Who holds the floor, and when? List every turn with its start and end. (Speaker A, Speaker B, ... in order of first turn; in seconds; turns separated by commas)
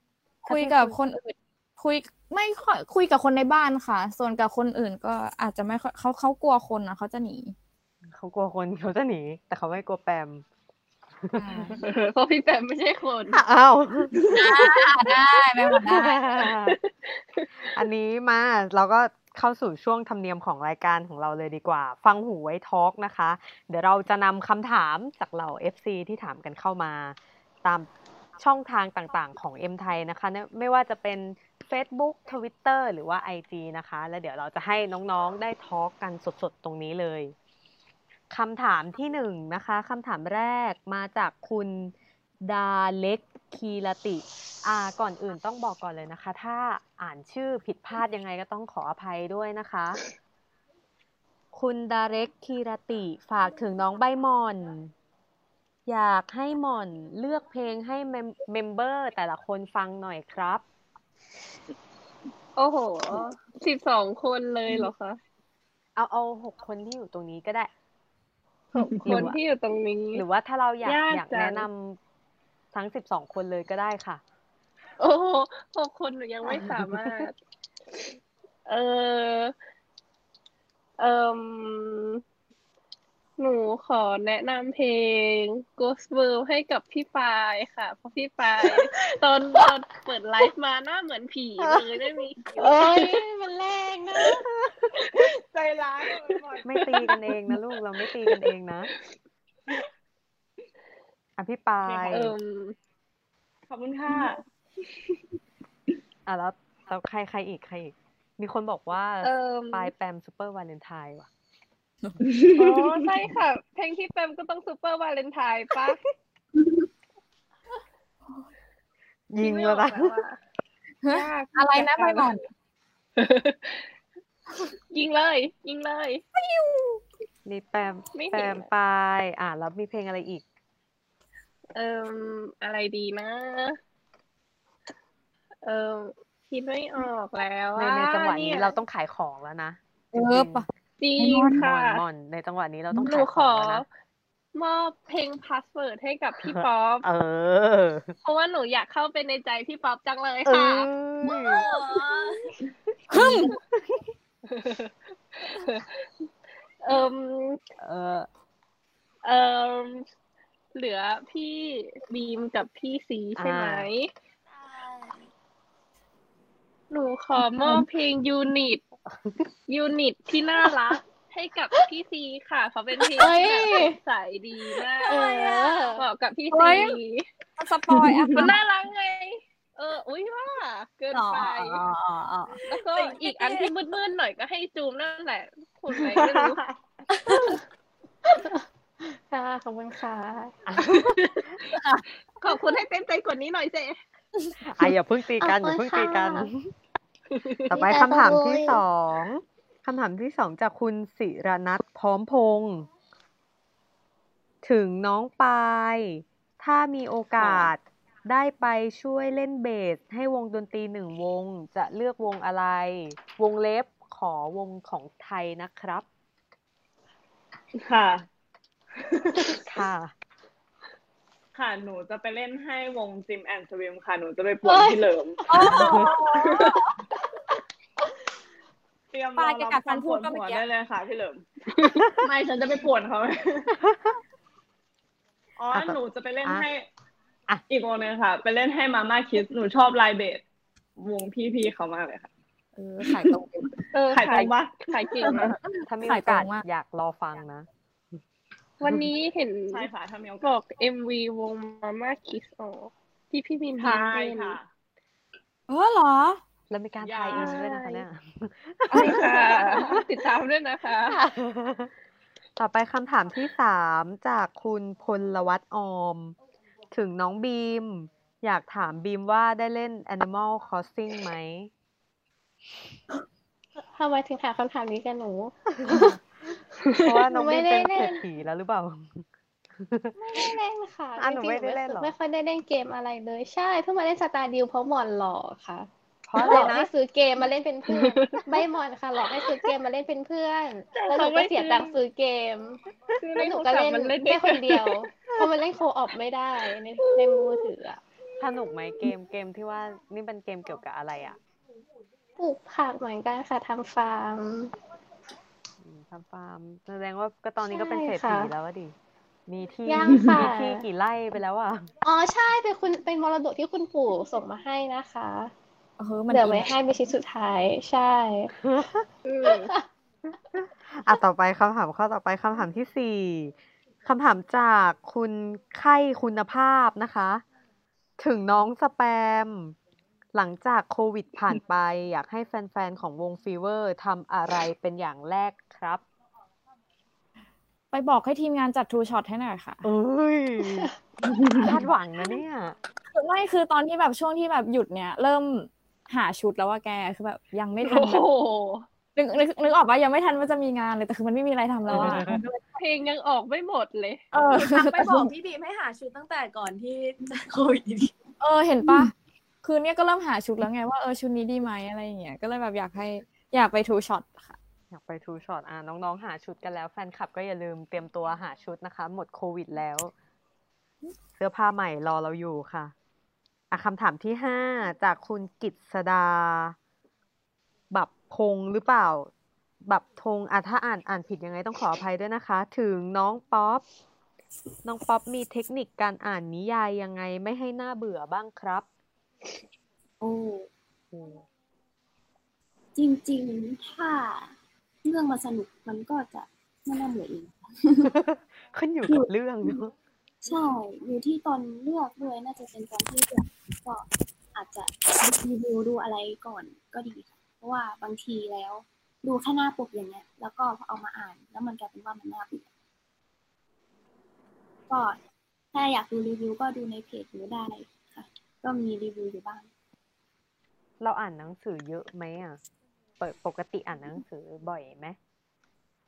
Speaker A: 0.4-0.9, Speaker B: 0.5-7.5, Speaker A: 8.1-10.4, Speaker A: 11.2-11.8, Speaker B: 11.3-11.8, Speaker C: 11.8-13.4, Speaker A: 13.3-14.3, Speaker B: 14.3-16.2, Speaker A: 15.8-16.8, Speaker C: 16.6-17.5, Speaker A: 17.6-27.9, Speaker A: 28.4-37.3, Speaker A: 38.3-41.9, Speaker A: 42.4-50.0, Speaker A: 51.5-54.9, Speaker A: 55.9-60.6, Speaker C: 62.6-65.2, Speaker A: 66.0-67.7, Speaker C: 68.7-70.2, Speaker D: 68.8-69.3, Speaker A: 69.0-69.4, Speaker A: 70.1-72.0, Speaker C: 70.8-71.7, Speaker A: 72.7-74.2, Speaker C: 75.0-77.3, Speaker A: 76.4-77.2, Speaker C: 78.7-79.5, Speaker C: 81.0-82.2, Speaker C: 83.4-93.0, Speaker E: 92.6-94.4, Speaker D: 95.2-97.0, Speaker A: 96.6-98.9, Speaker A: 101.4-102.3, Speaker D: 101.8-102.2, Speaker C: 102.1-102.7, Speaker D: 103.7-104.4, Speaker A: 106.3-111.3, Speaker C: 109.2-109.9, Speaker D: 112.2-113.1, Speaker C: 112.6-116.0, Speaker A: 119.3-120.2, Speaker C: 119.4-120.4, Speaker B: 121.0-122.4, Speaker C: 121.1-122.3, Speaker C: 123.2-123.9, Speaker C: 124.9-126.2, Speaker B: 126.4-127.0, Speaker A: 127.4-130.4, Speaker C: 128.1-128.7, Speaker C: 131.7-133.8, Speaker C: 135.6-138.7, Speaker A: 137.8-140.6, Speaker B: 140.1-140.7, Speaker C: 141.0-142.0, Speaker B: 141.2-141.6, Speaker A: 141.5-143.8, Speaker B: 142.9-143.2, Speaker C: 143.1-143.9, Speaker C: 144.5-147.1, Speaker A: 146.3-148.1, Speaker C: 148.2-150.9, Speaker A: 150.4-151.7, Speaker F: 151.3-152.5, Speaker B: 153.1-153.5, Speaker A: 153.1-154.1, Speaker C: 154.5-156.0, Speaker C: 156.8-157.6, Speaker A: 157.8-158.3, Speaker C: 159.2-160.0, Speaker C: 160.7-164.1, Speaker A: 163.3-163.9, Speaker C: 166.9-168.8, Speaker A: 169.1-169.4, Speaker C: 169.7-177.3, Speaker E: 173.1-174.0, Speaker E: 175.0-176.0, Speaker B: 176.5-177.0, Speaker B: 177.6-178.5, Speaker D: 177.9-178.5, Speaker C: 178.3-181.8, Speaker B: 181.1-182.7, Speaker C: 182.7-186.6, Speaker D: 186.0-186.7, Speaker E: 188.3-188.6, Speaker E: 189.3-190.6, Speaker A: 190.7-191.4, Speaker B: 191.7-192.0, Speaker C: 192.4-194.0, Speaker A: 194.6-196.7, Speaker E: 195.4-196.5, Speaker C: 197.3-197.7, Speaker A: 197.7-202.9, Speaker E: 197.7-198.8, Speaker A: 204.6-216.1, Speaker D: 207.4-207.7, Speaker D: 217.8-218.2, Speaker D: 219.0-219.6, Speaker A: 219.6-220.1, Speaker D: 221.5-226.0, Speaker E: 224.6-226.8, Speaker B: 225.5-226.8, Speaker A: 225.7-226.1, Speaker D: 229.1-231.5, Speaker B: 229.4-230.6, Speaker C: 231.8-232.1, Speaker D: 232.1-233.7, Speaker D: 235.6-236.8, Speaker A: 235.7-236.7, Speaker D: 237.7-240.4, Speaker D: 241.0-242.3, Speaker B: 242.8-243.8, Speaker D: 243.0-243.4, Speaker C: 243.9-245.6, Speaker D: 244.1-245.4, Speaker B: 245.2-246.6, Speaker A: 245.9-247.7, Speaker C: 248.8-249.9, Speaker D: 249.7-250.5, Speaker C: 250.4-254.6, Speaker D: 253.8-254.7, Speaker B: 255.7-256.4, Speaker A: 256.7-260.1, Speaker D: 257.0-257.7, Speaker C: 257.3-258.0, Speaker C: 258.9-261.2, Speaker A: 261.0-261.9, Speaker A: 262.6-266.3, Speaker A: 266.9-271.7, Speaker E: 273.9-276.1, Speaker A: 277.0-280.5, Speaker E: 277.2-278.2, Speaker E: 280.1-292.8, Speaker A: 281.2-282.1, Speaker A: 286.2-286.9, Speaker C: 287.9-288.4, Speaker C: 290.9-291.9, Speaker C: 293.2-295.0, Speaker E: 293.4-298.0, Speaker A: 298.4-301.4, Speaker E: 302.4-304.7, Speaker A: 305.8-308.9, Speaker E: 307.6-308.5, Speaker A: 309.5-311.9, Speaker E: 309.9-310.8, Speaker E: 312.0-315.5, Speaker B: 316.0-316.7, Speaker E: 316.3-318.5, Speaker A: 318.6-319.1, Speaker C: 319.2-319.7, Speaker E: 319.4-319.8, Speaker A: 320.5-323.5, Speaker A: 324.0-327.4, Speaker A: 328.2-329.8, Speaker A: 330.3-336.0, Speaker B: 337.9-339.8, Speaker A: 339.8-340.9, Speaker A: 341.6-342.8, Speaker B: 343.1-348.2, Speaker C: 347.8-348.8, Speaker B: 349.1-352.6, Speaker A: 351.9-352.4, Speaker C: 352.7-354.2, Speaker B: 354.3-355.3, Speaker F: 354.6-358.1, Speaker B: 358.4-364.6, Speaker A: 364.9-370.1, Speaker A: 371.4-372.9, Speaker A: 373.7-376.8, Speaker A: 377.9-379.3, Speaker A: 379.8-383.8, Speaker A: 384.8-388.9, Speaker G: 390.2-390.7, Speaker A: 391.1-391.4, Speaker G: 392.9-398.1, Speaker A: 398.0-399.9, Speaker G: 399.1-399.8, Speaker G: 400.4-412.7, Speaker G: 414.9-415.2, Speaker G: 415.7-419.7, Speaker A: 421.0-422.6, Speaker A: 423.2-425.2